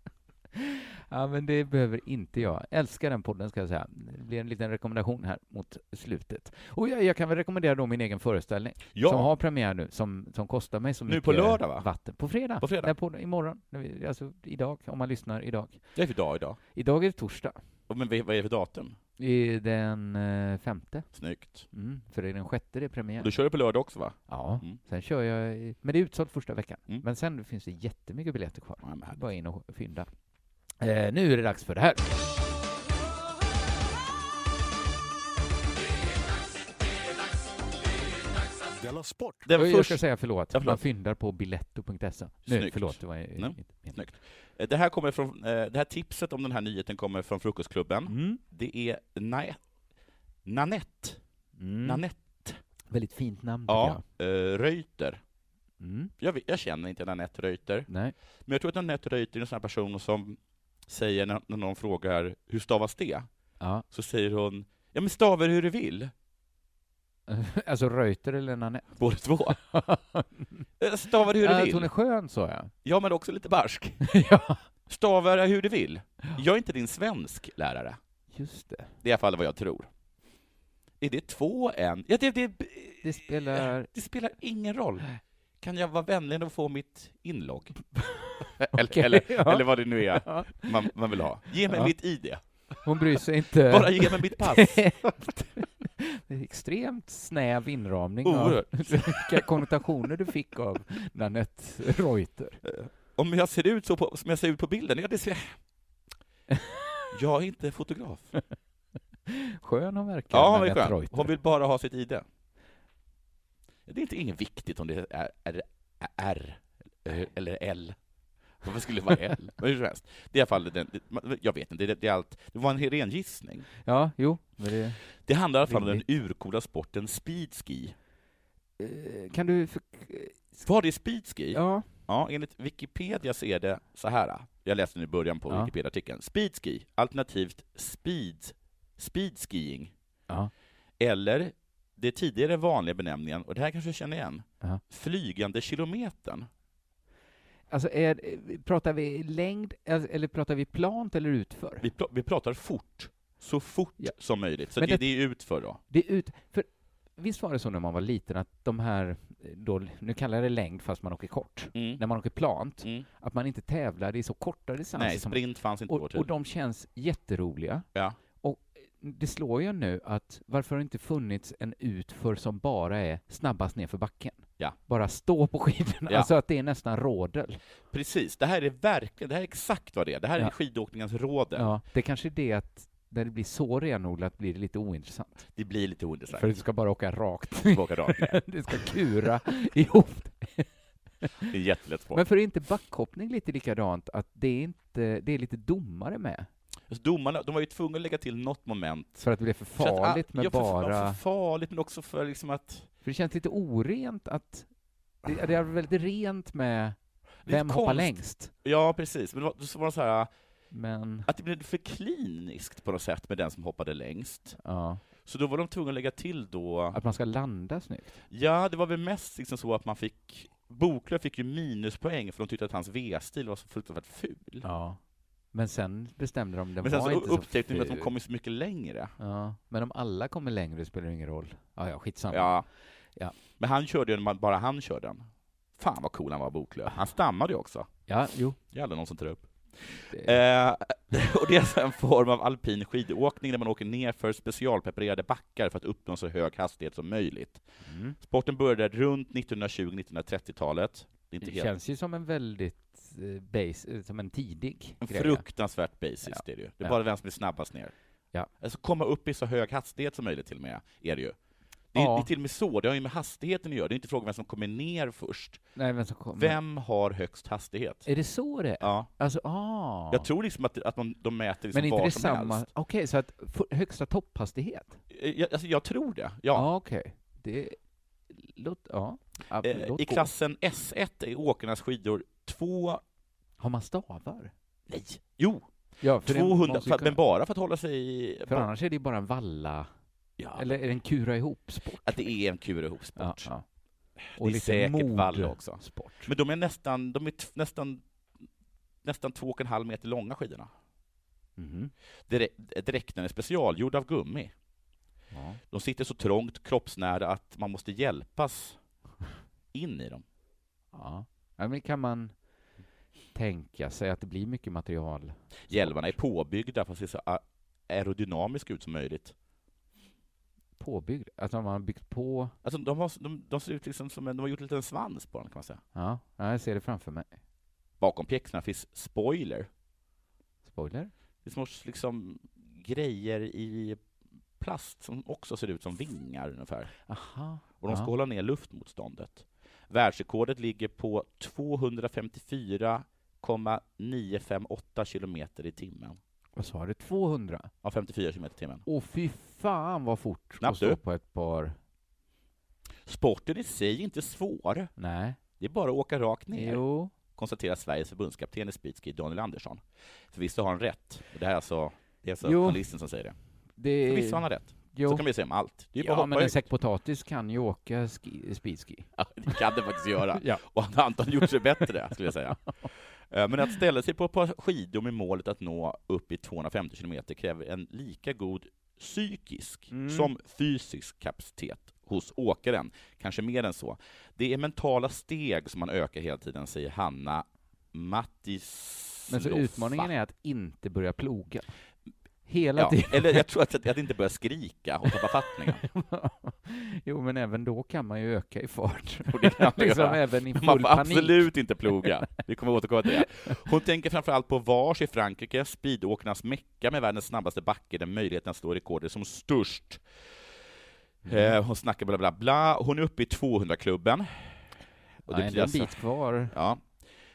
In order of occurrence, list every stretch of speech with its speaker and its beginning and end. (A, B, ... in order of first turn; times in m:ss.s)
0:00.5-0:15.9 A
0:08.9-0:09.3 B
0:11.1-0:11.9 B
0:12.6-0:12.9 B
0:15.9-0:16.6 B
0:16.7-0:17.6 A
0:17.9-0:19.0 B
0:19.2-0:21.1 A
0:21.1-0:21.6 B
0:21.7-0:23.3 A
0:23.2-0:24.8 B
0:24.3-0:30.1 A
0:28.8-0:29.2 B
0:30.8-0:32.2 A
0:39.4-0:40.8 B
0:39.5-0:44.0 A
0:42.5-0:49.6 B
0:48.1-0:48.4 A
0:50.4-0:51.2 B
0:51.6-0:52.0 A
0:51.8-0:52.6 B
0:52.9-0:54.0 A
0:53.7-0:55.2 B
0:55.8-0:56.1 A
0:56.2-0:57.9 B
0:57.9-0:58.1 A
0:58.4-1:03.3 B
1:03.6-1:03.8 A
1:03.9-1:06.1 B
1:07.3-1:08.9 A
1:09.0-1:09.6 B
1:09.6-1:10.7 A
1:10.8-1:11.9 B
1:11.3-1:12.7 A
1:12.8-1:14.0 B
1:14.0-1:14.6 A
1:14.9-1:18.0 B
1:18.3-1:18.9 A
1:19.0-1:19.9 B
1:21.0-1:25.1 B
1:23.0-1:23.9 A
1:25.6-1:27.9 B
1:28.1-1:30.9 A
1:28.6-1:32.4 B
1:31.7-1:31.9 A
1:32.8-1:42.6 A
1:33.7-1:34.9 B
1:38.2-1:39.6 B
1:42.6-1:45.5 B
1:46.5-1:46.8 A
1:47.1-1:48.3 B
1:49.3-1:51.3 A
1:50.3-1:52.2 B
1:53.9-1:58.0 B
1:58.6-2:03.7 B
2:03.8-2:05.0 A
2:05.2-2:08.0 B
2:05.7-2:06.0 A
2:08.8-2:10.6 A
2:10.6-2:19.9 B
2:11.5-2:11.9 A
2:21.0-2:26.5 B
2:27.7-2:31.8 A
2:31.8-2:35.8 B
2:34.8-2:35.0 A
2:35.9-2:47.9 A
2:41.7-2:42.0 B
2:45.0-2:46.3 B
2:48.4-2:57.6 A
2:57.9-3:01.7 B
3:01.5-3:05.4 A
3:05.5-3:06.5 B
3:06.3-3:11.5 A
3:07.6-3:08.9 B
3:11.5-3:12.2 B
3:12.1-3:16.5 A
3:16.9-3:19.2 B
3:19.2-3:21.2 A
3:19.8-3:22.9 B
3:23.0-3:24.7 A
3:25.2-3:28.5 A
3:27.4-3:30.3 B
3:30.7-3:31.3 A
3:31.3-3:34.6 B
3:34.6-3:35.0 A
3:35.2-3:37.0 B
3:36.9-3:38.2 A
3:38.3-3:44.6 B
3:44.6-3:45.0 A
3:45.5-3:48.1 A
3:46.8-3:49.1 B
3:49.2-3:52.6 A
3:52.3-3:52.6 B
3:53.6-3:57.9 B
3:58.1-3:58.6 A
3:58.7-4:07.6 B
4:07.8-4:08.2 A
4:08.2-4:11.7 B
4:11.4-4:15.4 A
4:15.0-4:17.9 B
4:16.2-4:17.0 A
4:18.6-4:21.3 B
4:21.9-4:25.6 B
4:21.9-4:22.3 A
4:25.8-4:26.6 A
4:26.4-4:28.1 B
4:28.0-4:30.3 A
4:28.8-4:29.1 B
4:30.1-4:32.7 B
4:31.7-4:35.0 A
4:35.1-4:36.7 B
4:36.5-4:37.8 A
4:38.3-4:40.3 A
4:39.6-4:43.0 B
4:43.6-4:44.5 A
4:44.9-4:45.7 B
4:46.0-4:47.2 A
4:46.2-4:48.7 B
4:48.5-4:49.9 A
4:50.4-4:50.8 B
4:50.5-4:52.3 A
4:52.0-4:53.5 B
4:53.2-4:53.6 A
4:54.3-4:58.0 B
4:54.4-4:56.3 A
4:59.0-5:00.7 B
5:01.6-5:01.9 A
5:02.3-5:04.5 B
5:05.3-5:05.6 A
5:05.7-5:08.8 B
5:09.7-5:10.2 B
5:10.9-5:12.3 A
5:13.3-5:16.1 A
5:15.7-5:19.3 B
5:20.8-5:22.5 A
5:22.6-5:25.8 B
5:25.9-5:27.3 A
5:28.0-5:29.7 B
5:30.6-5:31.1 A
5:31.4-5:34.0 B
5:34.6-5:36.9 B
5:37.1-5:38.1 A
5:37.8-5:46.2 B
5:46.6-5:47.7 A
5:47.8-5:48.8 B
5:48.8-5:51.8 A
5:50.6-5:51.0 B
5:53.0-5:54.9 B
5:55.0-5:55.4 A
5:55.6-5:56.8 B
5:56.5-5:57.1 A
5:57.3-6:03.3 B
6:02.4-6:02.8 A
6:03.8-6:05.2 A
6:04.0-6:06.6 B
6:06.0-6:09.6 A
6:09.2-6:30.1 B
6:10.3-6:10.6 A
6:11.4-6:11.9 A
6:19.9-6:20.3 A
6:29.3-6:31.7 A
6:32.4-6:33.4 A
6:32.8-6:35.8 B
6:35.7-6:42.3 A
6:39.3-6:50.0 B
6:43.0-6:43.6 A
6:51.2-6:51.6 A
6:51.2-6:54.6 B
6:55.2-6:56.9 B
6:55.3-6:56.6 A